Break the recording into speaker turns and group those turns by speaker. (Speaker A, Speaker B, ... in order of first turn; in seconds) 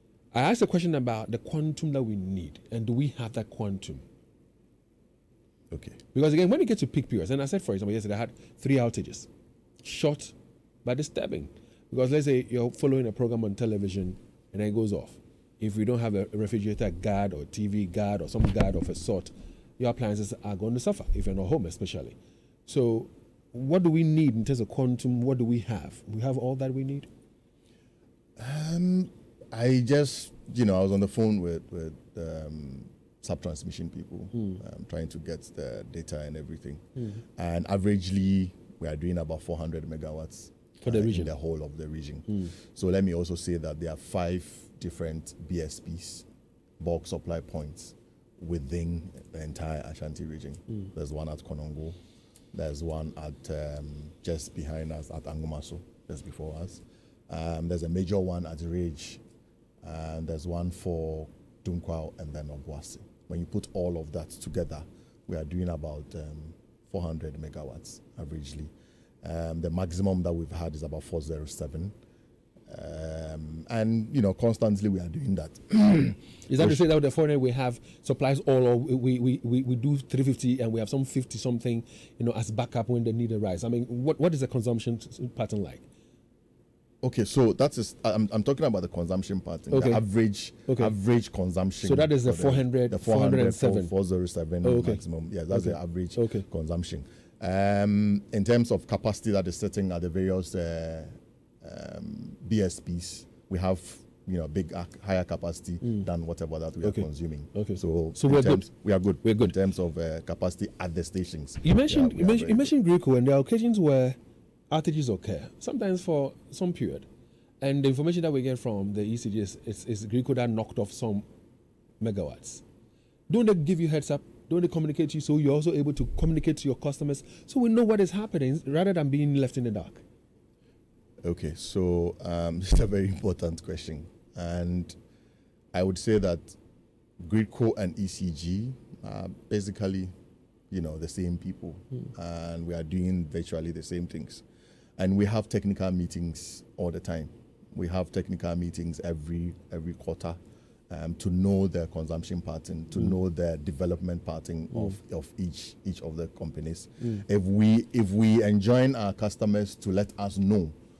Speaker A: 0.3-4.0, 6.1-9.3, 9.8-27.1, 40.8-41.3, 76.5-85.8, 89.7-90.0, 90.7-90.9, 91.8-93.9, 94.6-96.5, 106.8-108.7, 109.2-109.5, 111.6-114.2, 114.7-117.0, 117.6-121.2, 122.0-122.6, 123.3-130.0
Speaker B: 5.7-6.0, 28.4-36.8, 37.4-46.3, 46.8-52.0, 52.5-59.2, 59.8-68.7, 69.2-71.9, 72.7-76.8, 87.0-101.1, 101.6-112.7, 131.2-134.9, 135.7-136.6, 137.2-140.1, 140.7-144.4, 145.0-150.4, 150.9-160.7